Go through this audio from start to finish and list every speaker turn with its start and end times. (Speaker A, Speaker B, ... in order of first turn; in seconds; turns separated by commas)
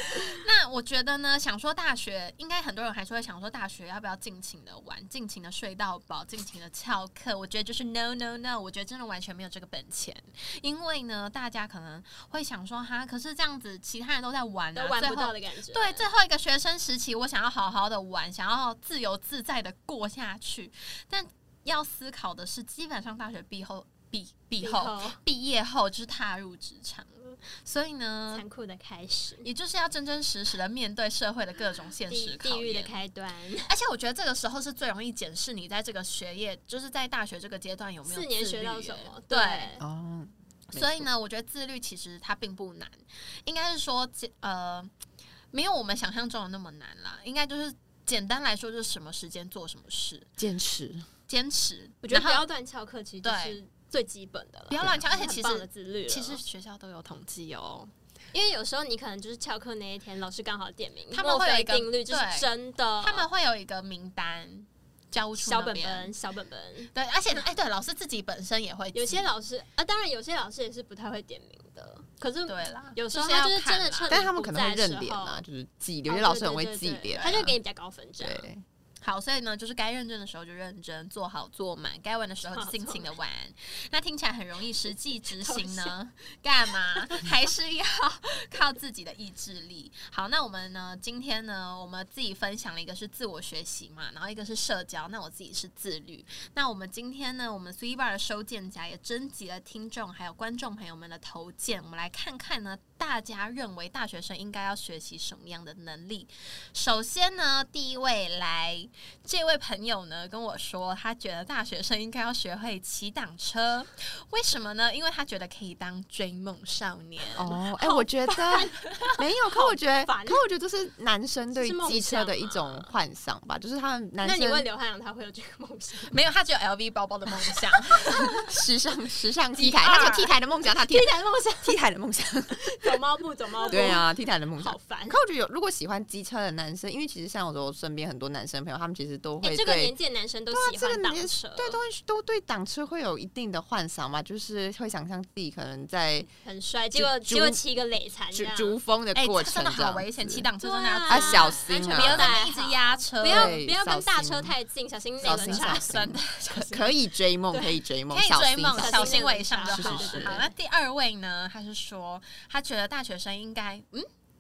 Speaker A: 0.1-28.4, Speaker B: 14.8-16.1, Speaker B: 24.6-25.2, Speaker B: 28.3-29.5, Speaker A: 29.4-32.9, Speaker B: 32.1-33.7, Speaker A: 33.7-39.7, Speaker B: 38.1-39.8, Speaker C: 39.8-41.1, Speaker A: 40.7-44.9, Speaker A: 45.5-50.3, Speaker C: 50.4-51.1, Speaker A: 51.3-52.5, Speaker B: 52.0-56.4, Speaker A: 53.2-53.6, Speaker A: 54.7-57.9, Speaker C: 54.8-55.0, Speaker B: 58.3-63.3, Speaker A: 61.1-62.5, Speaker A: 63.0-66.1, Speaker B: 65.4-66.9, Speaker A: 67.0-69.3, Speaker B: 68.9-75.4, Speaker A: 72.5-74.1, Speaker C: 74.1-77.5, Speaker B: 76.1-78.5, Speaker A: 77.2-77.5, Speaker C: 78.2-78.6, Speaker A: 79.0-117.6, Speaker B: 82.5-83.1, Speaker B: 85.4-86.0, Speaker C: 117.4-124.7, Speaker B: 117.5-120.4, Speaker B: 121.5-122.9, Speaker B: 124.2-126.2, Speaker A: 126.1-128.5, Speaker C: 128.3-133.0, Speaker A: 129.6-130.3, Speaker B: 129.6-131.8, Speaker B: 132.5-135.2, Speaker A: 133.6-134.0, Speaker C: 133.7-139.9, Speaker B: 139.4-141.8, Speaker C: 140.5-146.3, Speaker B: 146.4-148.8, Speaker C: 146.9-147.6, Speaker C: 148.3-150.5, Speaker A: 149.2-153.6, Speaker B: 150.6-155.9, Speaker C: 151.1-152.3, Speaker C: 153.2-154.5, Speaker C: 155.2-160.5, Speaker A: 155.2-156.9, Speaker B: 157.5-157.8, Speaker A: 158.1-164.1, Speaker B: 158.8-160.5